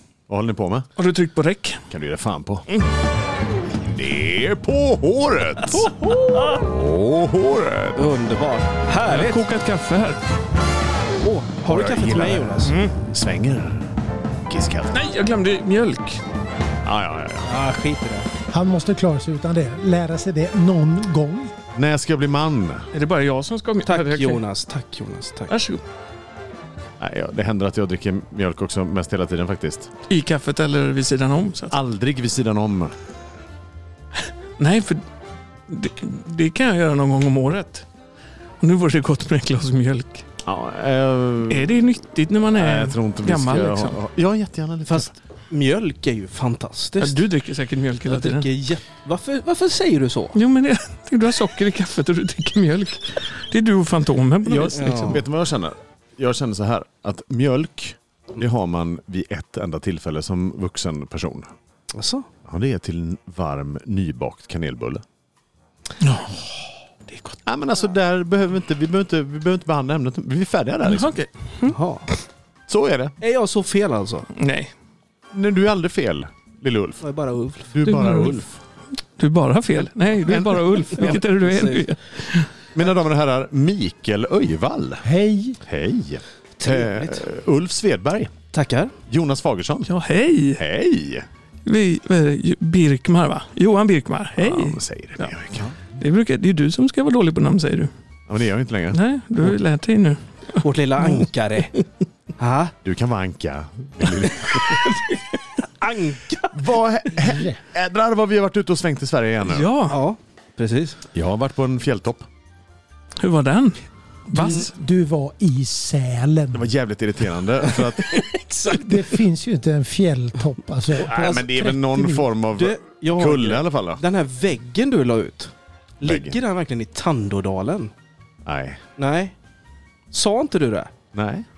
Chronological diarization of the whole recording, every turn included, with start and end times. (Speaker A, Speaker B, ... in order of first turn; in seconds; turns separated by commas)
Speaker A: 0.3-0.9, Speaker B: 1.0-1.8, Speaker A: 1.9-2.7, Speaker A: 3.7-5.9, Speaker C: 5.8-6.6, Speaker A: 6.5-8.1, Speaker C: 8.0-9.5, Speaker B: 9.1-10.2, Speaker C: 11.2-12.8, Speaker A: 11.7-12.6, Speaker B: 12.6-12.9, Speaker A: 13.1-13.9, Speaker A: 14.5-15.1, Speaker B: 14.9-16.2, Speaker A: 16.8-17.5, Speaker C: 17.4-18.3, Speaker D: 18.5-21.5, Speaker A: 21.8-22.9, Speaker B: 22.9-24.4, Speaker C: 23.8-25.6, Speaker B: 25.5-25.8, Speaker A: 27.0-29.9, Speaker B: 30.1-31.8, Speaker A: 31.7-32.9, Speaker B: 34.6-35.0, Speaker B: 35.7-37.9, Speaker B: 38.6-40.3, Speaker A: 40.5-41.7, Speaker B: 41.5-44.0, Speaker A: 42.5-45.1, Speaker C: 44.9-47.3, Speaker B: 47.0-48.5, Speaker C: 48.1-50.4, Speaker B: 50.4-55.2, Speaker A: 54.4-61.5, Speaker C: 54.7-55.2, Speaker C: 61.9-62.3, Speaker A: 62.5-65.0, Speaker B: 66.0-67.4, Speaker A: 67.5-71.2, Speaker B: 70.8-71.8, Speaker C: 71.7-72.1, Speaker A: 72.7-73.2, Speaker C: 73.2-74.3, Speaker B: 74.3-74.7, Speaker A: 75.3-77.0, Speaker C: 77.0-78.4, Speaker A: 77.7-78.5, Speaker B: 77.8-78.4, Speaker B: 79.2-82.5, Speaker A: 80.2-81.2, Speaker C: 81.0-81.9, Speaker A: 82.8-85.0, Speaker D: 85.0-85.6, Speaker A: 85.7-88.3, Speaker C: 86.6-87.2, Speaker C: 88.5-88.9, Speaker A: 89.1-89.9, Speaker B: 89.9-90.6, Speaker A: 90.6-91.3, Speaker B: 91.7-95.3, Speaker A: 94.4-95.7, Speaker B: 96.0-97.9, Speaker A: 98.3-99.5, Speaker B: 98.9-101.2, Speaker C: 100.6-101.8, Speaker C: 102.4-102.8, Speaker A: 102.8-104.8, Speaker C: 105.6-106.6, Speaker A: 106.5-109.7, Speaker D: 107.2-107.6, Speaker B: 109.5-110.0, Speaker C: 109.9-111.0, Speaker A: 111.1-112.3, Speaker B: 113.2-114.7, Speaker D: 114.3-116.7, Speaker A: 116.5-118.0, Speaker C: 117.8-118.8, Speaker D: 118.7-122.3, Speaker A: 121.0-124.0, Speaker C: 121.0-121.4, Speaker C: 122.5-127.9, Speaker A: 126.0-126.4, Speaker A: 128.5-128.8, Speaker C: 129.0-129.3, Speaker C: 130.1-130.9, Speaker A: 131.1-131.5